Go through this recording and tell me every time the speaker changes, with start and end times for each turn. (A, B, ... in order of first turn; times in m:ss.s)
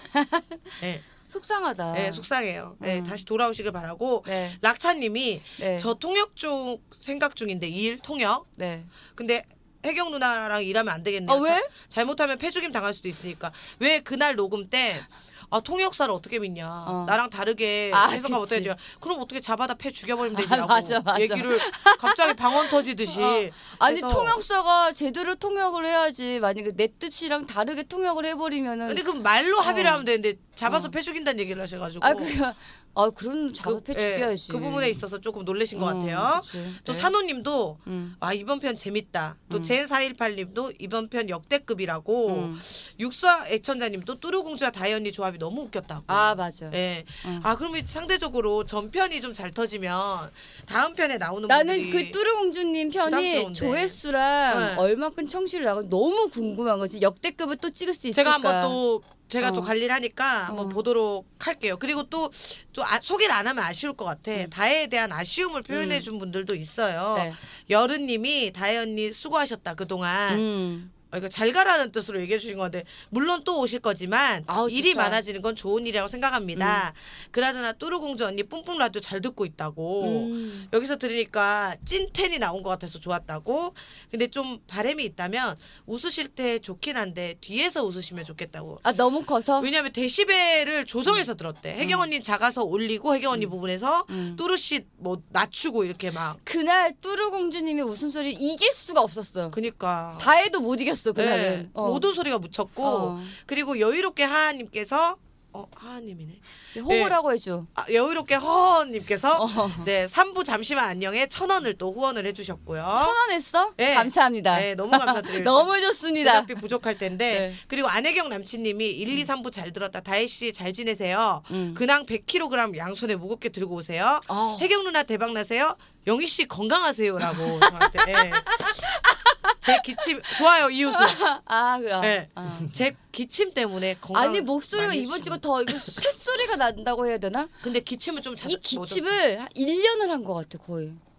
0:00.1-0:02.3 A
0:00.8-0:01.1 B
0:01.9-0:08.5 B
0:02.8-0:03.2 A
0:04.3-0:04.6 A
0:05.6-0:05.9 A
0:08.6-0:08.9 A
0:09.1-0:24.4 B
0:11.3-0:11.7 A
0:16.8-0:17.2 A
0:17.9-0:18.7 A
0:20.3-0:29.0 A
0:28.9-0:32.4 B
0:29.6-0:30.1 A
0:30.7-0:31.0 A
0:32.0-0:35.0 A
0:33.6-0:52.2 B
0:35.8-0:37.2 A
0:37.9-0:38.2 A
0:42.3-0:42.6 A
0:46.1-0:47.5 A
0:51.5-0:58.8 A
0:53.1-0:54.0 B
0:54.5-0:54.8 B
0:58.1-1:10.4 B
0:59.4-0:59.7 A
1:00.5-1:00.8 A
1:05.7-1:06.1 A
1:10.3-1:10.9 A
1:11.1-1:28.8 B
1:14.5-1:15.2 A
1:16.6-1:16.8 A
1:20.0-1:20.7 A
1:28.8-1:29.7 A
1:29.6-1:36.4 B
1:31.8-1:32.1 A
1:34.1-1:34.4 A
1:36.4-1:39.6 A
1:39.5-1:40.3 B
1:40.2-1:42.1 A
1:41.2-1:47.2 B
1:42.8-1:43.4 A
1:46.7-1:47.7 A
1:47.8-1:53.2 B
1:49.3-1:49.9 A
1:52.9-1:56.5 A
1:53.8-2:08.6 B
1:57.3-1:57.6 A
2:01.5-2:01.8 A
2:04.3-2:04.7 A
2:07.5-2:10.0 A
2:09.6-2:11.3 B
2:10.9-2:12.7 A
2:12.0-2:16.0 B
2:14.1-2:17.6 A
2:17.6-2:19.2 B
2:18.4-2:21.0 A